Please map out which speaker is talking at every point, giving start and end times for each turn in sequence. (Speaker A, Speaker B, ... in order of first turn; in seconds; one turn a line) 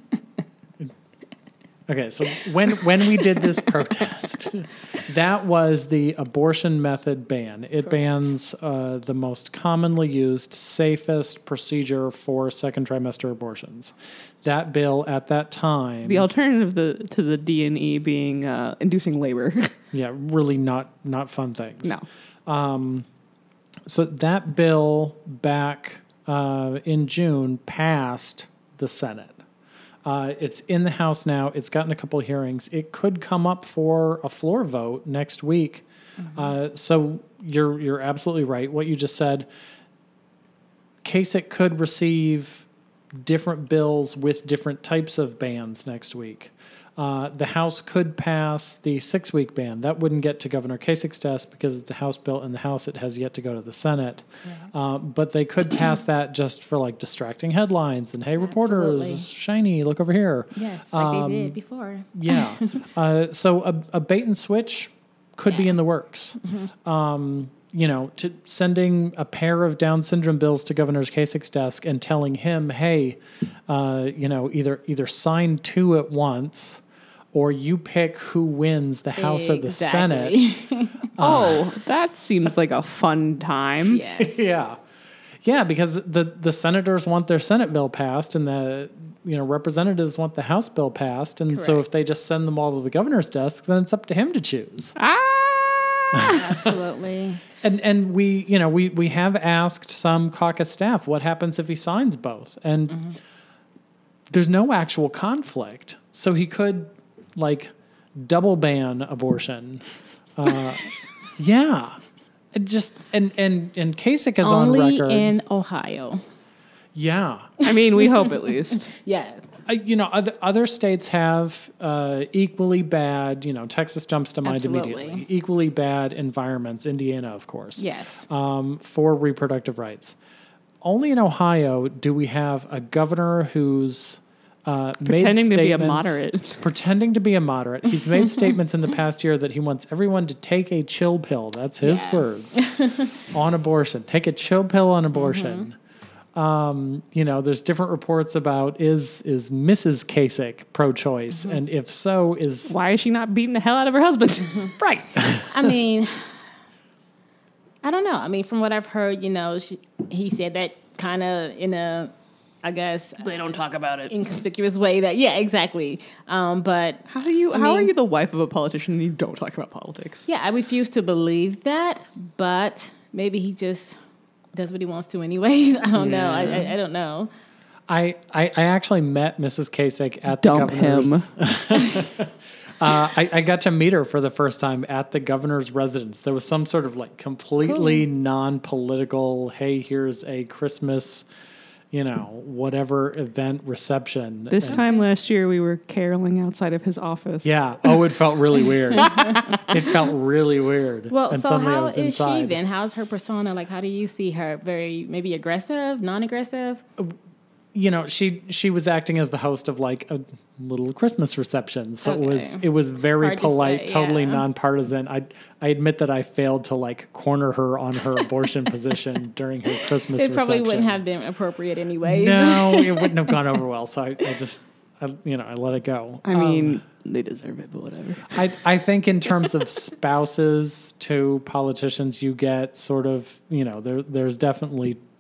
Speaker A: 1.9-16.3
Speaker B: 16.1-19.7
Speaker A: 19.9-23.1
Speaker A: 23.9-29.4
Speaker A: 30.1-39.5
Speaker A: 41.0-42.7
Speaker A: 43.2-61.6
Speaker C: 58.4-59.3
Speaker C: 60.5-62.8
Speaker A: 62.1-76.8
Speaker C: 66.4-66.7
Speaker A: 77.3-80.4
Speaker C: 79.2-81.1
Speaker A: 81.2-81.7
Speaker B: 81.2-84.0
Speaker C: 83.9-84.5
Speaker A: 84.2-84.8
Speaker A: 85.4-94.9
Speaker C: 91.5-91.8
Speaker B: 95.0-96.7
Speaker A: 96.1-96.4
Speaker C: 96.3-97.4
Speaker A: 97.6-103.0
Speaker A: 104.3-109.8
Speaker A: 110.4-112.0
Speaker A: 112.5-115.3
Speaker C: 114.4-116.2
Speaker A: 116.9-117.5
Speaker B: 117.6-118.9
Speaker C: 118.9-119.4
Speaker A: 119.7-130.2
Speaker C: 124.4-125.2
Speaker C: 127.8-128.3
Speaker A: 130.8-145.7
Speaker B: 135.1-136.6
Speaker C: 141.8-143.1
Speaker C: 145.1-145.7
Speaker A: 146.3-152.8
Speaker B: 152.7-154.7
Speaker A: 154.8-155.7
Speaker C: 155.5-156.3
Speaker C: 157.8-163.4
Speaker B: 163.2-164.1
Speaker C: 164.1-167.9
Speaker B: 167.1-170.3
Speaker C: 170.3-174.0
Speaker C: 174.5-177.3
Speaker B: 176.0-176.6
Speaker A: 177.9-191.3
Speaker B: 180.3-181.3
Speaker C: 187.7-188.0
Speaker A: 191.9-194.8
Speaker B: 194.6-198.0
Speaker C: 194.6-195.1
Speaker A: 197.4-202.6
Speaker B: 199.0-199.7
Speaker C: 201.1-206.8
Speaker A: 207.7-221.0
Speaker C: 212.0-212.7
Speaker C: 213.2-214.4
Speaker C: 220.2-223.3
Speaker A: 222.0-226.8
Speaker B: 226.2-228.6
Speaker A: 228.3-235.0